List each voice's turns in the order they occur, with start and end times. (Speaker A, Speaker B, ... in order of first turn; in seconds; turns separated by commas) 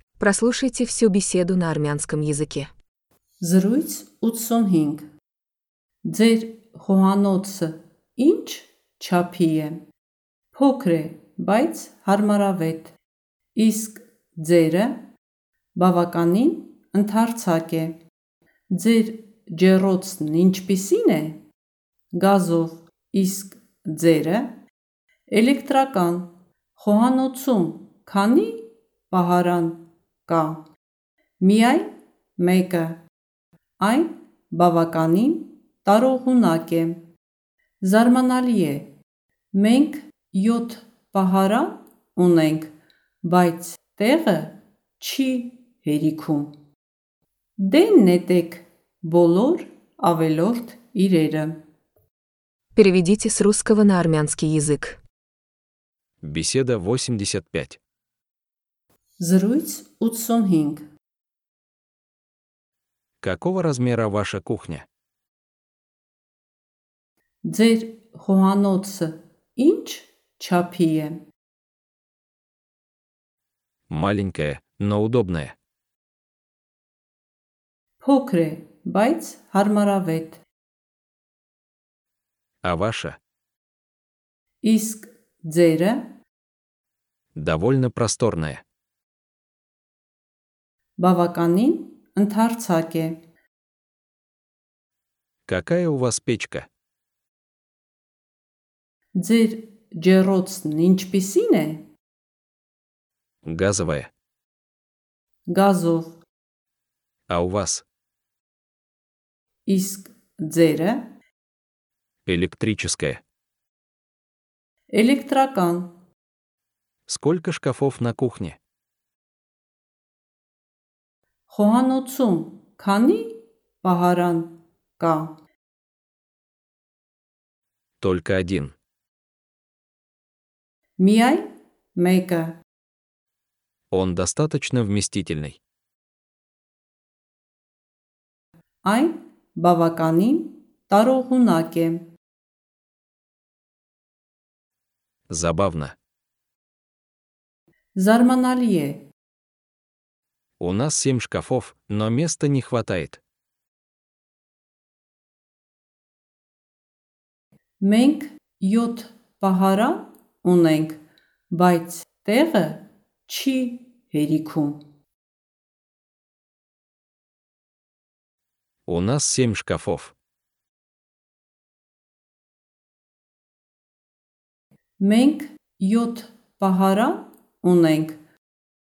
Speaker A: 0.2-2.7, Speaker B: 3.4-5.0, Speaker B: 6.1-9.8, Speaker B: 10.6-12.9, Speaker B: 13.6-15.0, Speaker B: 15.8-18.0, Speaker B: 18.8-21.4, Speaker B: 22.2-24.5, Speaker B: 25.3-28.6, Speaker B: 29.1-30.6, Speaker B: 31.4-33.0, Speaker B: 33.8-37.0, Speaker B: 37.8-38.9, Speaker B: 39.5-42.7, Speaker B: 43.2-46.5, Speaker B: 47.6-51.6, Speaker A: 52.8-55.0, Speaker C: 56.2-57.8, Speaker B: 59.2-60.8, Speaker C: 63.2-64.9, Speaker B: 67.5-71.2, Speaker C: 73.9-75.5, Speaker B: 78.0-80.4, Speaker C: 82.6-83.2, Speaker B: 84.6-86.1, Speaker C: 87.3-88.6, Speaker B: 91.0-93.2, Speaker C: 95.5-96.7, Speaker B: 99.2-101.9, Speaker C: 103.4-104.1, Speaker B: 105.5-106.2, Speaker C: 107.3-107.8, Speaker B: 109.7-111.1, Speaker C: 112.3-113.2, Speaker B: 114.9-115.9, Speaker C: 117.1-118.6, Speaker B: 121.5-125.3, Speaker C: 128.0-128.8, Speaker B: 131.0-132.6, Speaker C: 133.9-135.6, Speaker B: 138.8-142.1, Speaker C: 145.3-146.0, Speaker B: 148.0-149.1, Speaker C: 150.6-153.2, Speaker B: 157.8-161.0, Speaker B: 161.5-164.8, Speaker C: 168.9-170.1, Speaker B: 175.0-178.2